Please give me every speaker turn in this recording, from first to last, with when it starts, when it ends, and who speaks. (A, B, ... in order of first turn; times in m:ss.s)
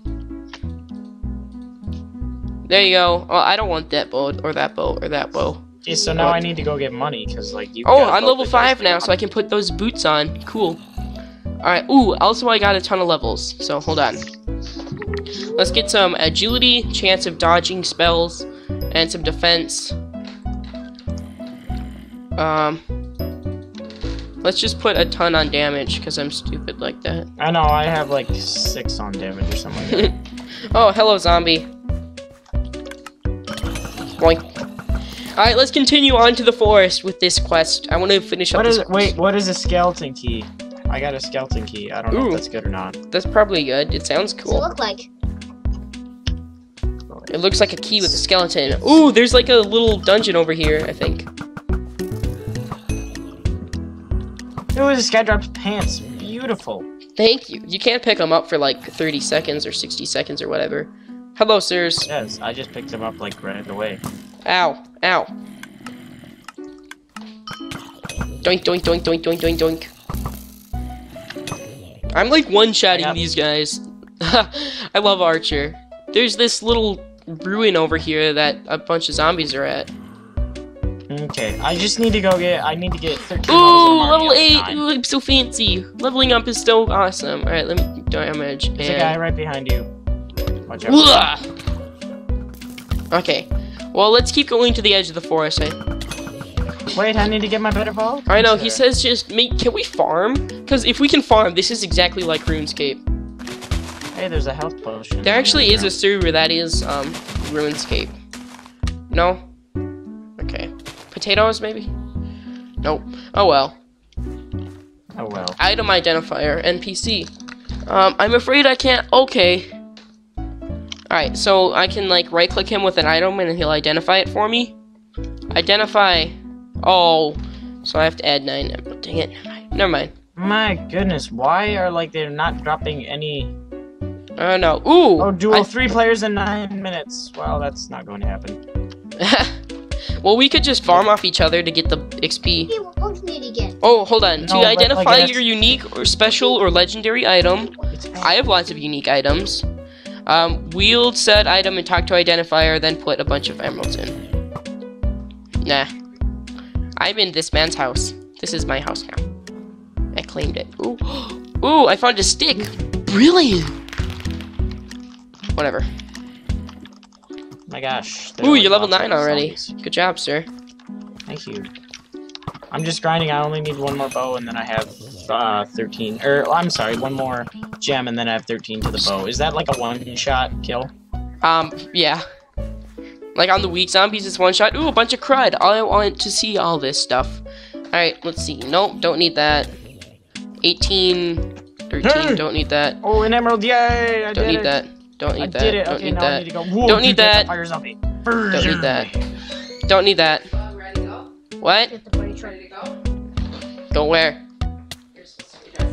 0:02.7-0:05.7 A
0:05.8-0:09.1 B
0:06.2-0:06.4 A
0:07.8-0:10.8 A
0:11.6-0:14.2 A
0:15.4-0:20.0 A
0:22.4-0:22.8 A
0:24.4-0:27.3 A
0:27.4-0:30.1 B
0:29.9-0:30.1 A
0:30.7-0:31.7 A
0:34.2-0:34.5 A
0:35.4-0:39.1 A
0:38.5-0:43.0 B
0:42.1-0:42.4 A
0:43.1-0:44.7 A
0:44.4-0:45.1 C
0:47.3-0:51.3 A
0:54.7-0:56.9 B
0:57.2-1:02.1 A
1:02.1-1:04.0 B
1:04.5-1:05.3 A
1:08.4-1:09.9 A
1:12.1-1:19.9 A
1:12.9-1:13.2 B
1:21.1-1:24.8 B
1:23.5-1:29.2 A
1:28.8-1:29.9 B
1:30.7-1:31.3 B
1:30.9-1:31.5 A
1:33.1-1:35.8 A
1:36.9-1:38.8 B
1:38.3-1:43.0 A
1:44.1-1:45.9 B
1:45.2-1:48.2 A
1:49.1-1:49.4 A
1:50.4-1:51.9 A
1:52.8-1:53.8 A
1:55.2-1:55.6 B
1:55.6-1:57.3 A
1:57.9-1:59.7 A
2:01.1-2:04.7 A
2:05.5-2:10.1 A
2:10.4-2:13.5 B
2:14.4-2:15.7 A
2:15.2-2:18.6 B
2:19.2-2:19.6 A
2:20.2-2:22.7 A
2:22.7-2:23.8 C
2:23.8-2:29.6 A
2:24.4-2:25.4 B
2:27.9-2:28.3 B
2:30.3-2:34.2 A
2:35.6-2:35.9 A
2:37.0-2:39.2 A
2:40.1-2:43.8 A
2:45.6-2:45.9 A
2:47.7-2:49.7 B
2:48.4-2:50.5 A
2:51.3-2:51.7 B
2:52.7-3:00.9 B
3:01.4-3:02.2 A
3:03.4-3:09.7 A
3:10.6-3:13.0 A
3:12.0-3:12.4 B
3:13.0-3:14.8 B
3:14.3-3:17.5 A
3:15.4-3:19.2 B
3:18.5-3:19.1 A
3:19.9-3:20.6 A
3:21.6-3:22.0 A
3:21.9-3:22.9 C
3:23.9-3:24.4 A